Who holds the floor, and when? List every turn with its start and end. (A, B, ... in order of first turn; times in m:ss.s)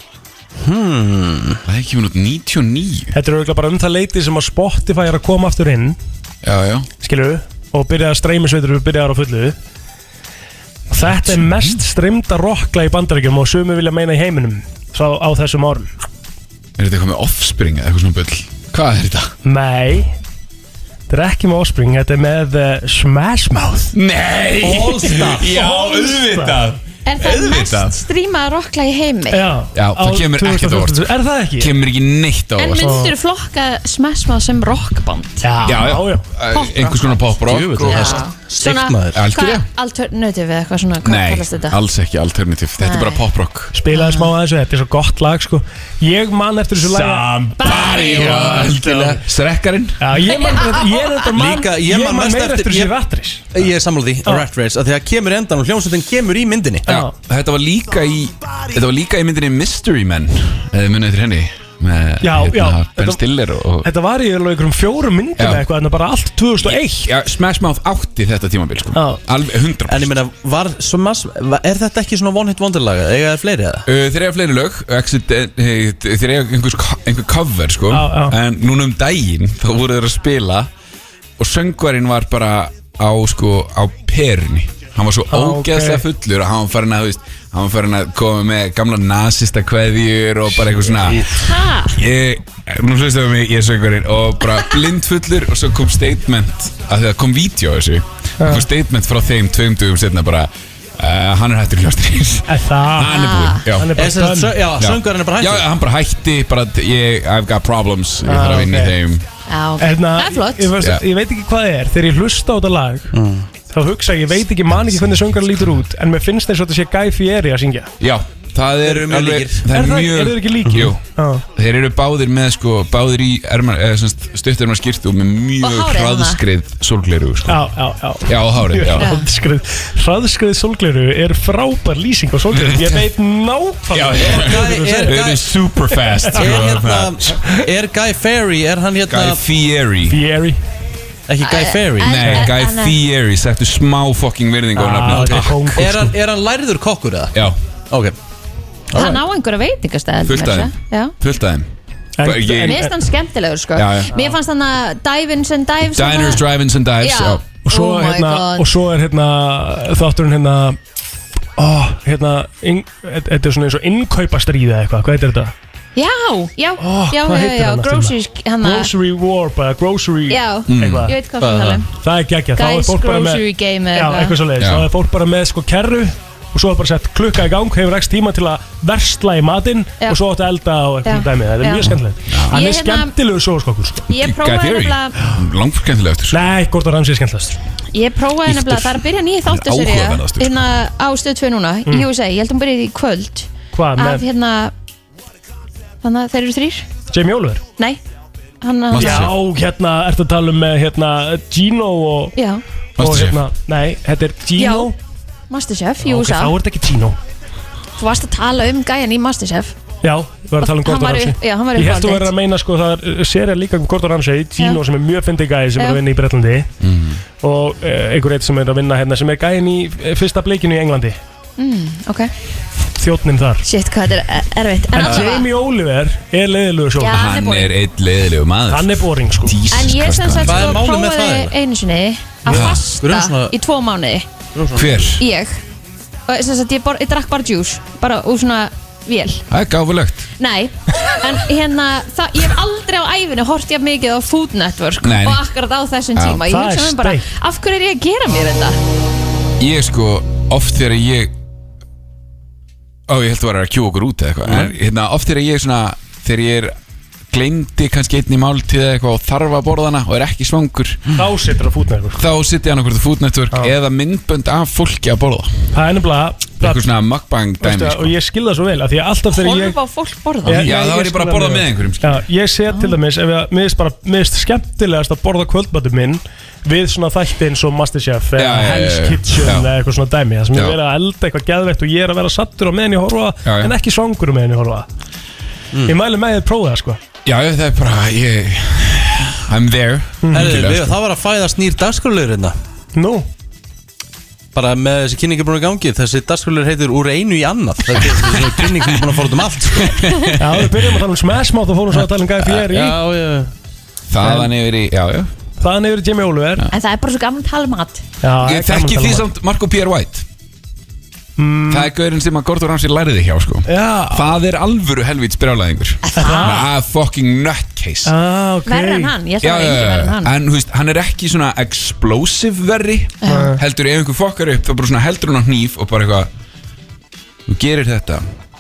0:00.6-0:01.6 A
0:01.7-0:03.1 B
0:03.1-0:06.0 C
0:06.4-0:06.9 B
0:07.0-0:09.6 C
0:10.9-0:15.9 C
0:11.1-0:11.8 B
0:16.8-0:19.3 B
0:19.4-0:20.2 C
0:21.1-0:23.9 C
0:23.9-0:28.0 B
0:24.6-0:25.5 A
0:25.5-0:26.6 C
0:27.1-0:29.4 D
0:29.3-0:31.7 C
0:29.8-0:33.0 B
0:32.6-0:35.5 D
0:32.8-0:33.1 C
0:35.4-0:36.3 C
0:35.6-0:38.2 B
0:36.5-0:37.2 D
0:37.4-0:39.2 A
0:37.9-0:41.8 D
0:39.2-0:39.6 B
0:41.0-0:43.7 B
0:42.8-0:43.2 D
0:43.7-0:49.2 C
0:43.9-0:44.3 D
0:47.6-0:48.7 D
0:47.6-0:50.0 B
0:50.0-0:53.5 C
0:50.2-0:51.3 D
0:51.3-0:52.9 A
0:53.5-0:56.9 A
0:56.9-0:57.1 C
0:56.9-1:03.9 B
1:02.2-1:03.2 C
1:03.8-1:07.1 C
1:05.4-1:05.7 B
1:06.6-1:10.1 B
1:09.0-1:09.2 C
1:09.9-1:13.9 A
1:13.9-1:20.7 B
1:17.9-1:18.4 C
1:21.4-1:31.3 B
1:25.3-1:26.0 C
1:30.8-1:31.4 A
1:31.4-1:32.0 D
1:31.9-1:43.9 B
1:38.4-1:38.7 C
1:42.5-1:43.2 C
1:43.0-1:43.7 D
1:43.7-1:44.6 C
1:44.0-1:45.7 A
1:44.8-1:49.2 B
1:48.2-1:49.0 C
1:49.5-1:50.7 D
1:49.8-1:53.2 C
1:53.1-1:53.5 A
1:53.7-1:57.9 C
1:58.0-2:01.0 B
1:58.8-1:59.7 A
1:59.7-2:01.4 C
2:01.5-2:07.7 B
2:05.6-2:06.4 D
2:07.5-2:15.2 C
2:08.3-2:09.1 B
2:09.0-2:09.3 D
2:12.5-2:13.0 B
2:13.9-2:17.2 B
2:14.2-2:15.5 A
2:16.2-2:16.7 C
2:16.3-2:19.4 A
2:19.1-2:20.2 B
2:20.1-2:20.6 C
2:21.3-2:22.2 A
2:21.4-2:23.0 D
2:22.0-2:25.8 B
2:24.7-2:26.1 C
2:25.1-2:28.2 A
2:28.9-2:29.2 A
2:28.9-2:31.1 D
2:30.2-2:31.7 B
2:32.2-2:32.9 C
2:32.2-2:32.8 B
2:32.5-2:36.4 D
2:33.8-2:34.1 B
2:36.0-2:37.4 B
2:37.0-2:38.7 D
2:37.6-2:40.8 C
2:41.6-2:45.5 C
2:46.0-2:48.9 D
2:46.8-2:51.2 C
2:50.3-2:51.9 D
2:50.7-2:51.1 B
2:51.4-2:51.8 A
2:52.0-3:04.1 C
2:52.6-2:54.4 D
2:54.6-2:54.9 B
3:01.0-3:02.0 D
3:02.5-3:03.1 D
3:04.1-3:05.2 D
3:04.1-3:06.5 B
3:06.3-3:07.6 C
3:07.9-3:14.7 D
3:08.5-3:10.6 B
3:13.7-3:14.2 C
3:16.0-3:16.9 D
3:17.1-3:17.6 C
3:18.6-3:19.3 D
3:18.9-3:19.3 B
3:19.0-3:22.4 C
3:22.4-3:22.6 D
3:23.0-3:25.0 C
3:23.0-3:23.4 B
3:24.6-3:24.9 D
3:25.5-3:26.5 D
3:26.0-3:27.2 C
3:28.0-3:29.8 D
3:30.0-3:36.7 C
3:30.6-3:32.3 D
3:36.8-3:37.2 B
3:37.4-3:41.2 C
3:41.6-3:42.3 D
3:43.0-3:43.7 C
3:43.6-3:45.5 D
3:45.0-3:47.2 C
3:47.0-3:47.7 D
3:47.1-3:50.8 B
3:48.7-3:49.6 C
3:49.7-3:54.3 D
3:50.4-3:51.5 A
3:52.5-3:53.6 A
3:52.5-3:52.8 B
3:54.6-3:55.0 A
3:54.8-3:55.2 B
3:55.2-3:55.6 D
3:56.3-3:59.4 D
3:59.5-4:00.3 B
4:00.4-4:08.8 D
4:05.0-4:05.5 B
4:06.2-4:06.4 B
4:06.5-4:07.3 C
4:09.6-4:11.3 B
4:13.1-4:16.7 B
4:17.3-4:21.1 B
4:21.1-4:22.2 C
4:22.2-4:25.5 B
4:25.7-4:26.8 C
4:26.6-4:28.1 B
4:27.6-4:29.8 C
4:29.3-4:30.7 D
4:30.4-4:44.9 C
4:30.5-4:32.2 B
4:38.4-4:39.7 B
4:40.5-4:40.8 B
4:43.4-4:43.7 B
4:45.9-4:47.0 C
4:47.2-4:50.9 B
4:50.2-4:50.5 C
4:50.3-4:52.6 A
4:53.0-4:53.3 C
4:54.5-5:00.0 A
4:59.9-5:00.8 B
5:00.4-5:03.0 C
5:02.4-5:03.5 A
5:04.1-5:05.3 B
5:04.2-5:04.5 C
5:05.6-5:06.7 C
5:06.7-5:08.0 D
5:08.2-5:09.2 C
5:08.4-5:10.3 B
5:11.4-5:11.9 C
5:11.7-5:18.1 B
5:13.7-5:14.4 C
5:16.0-5:16.7 D
5:16.2-5:16.7 C
5:18.0-5:19.2 C
5:18.7-5:20.3 D
5:19.4-5:26.3 B
5:23.2-5:23.6 D
5:23.3-5:23.6 C
5:27.5-5:28.2 B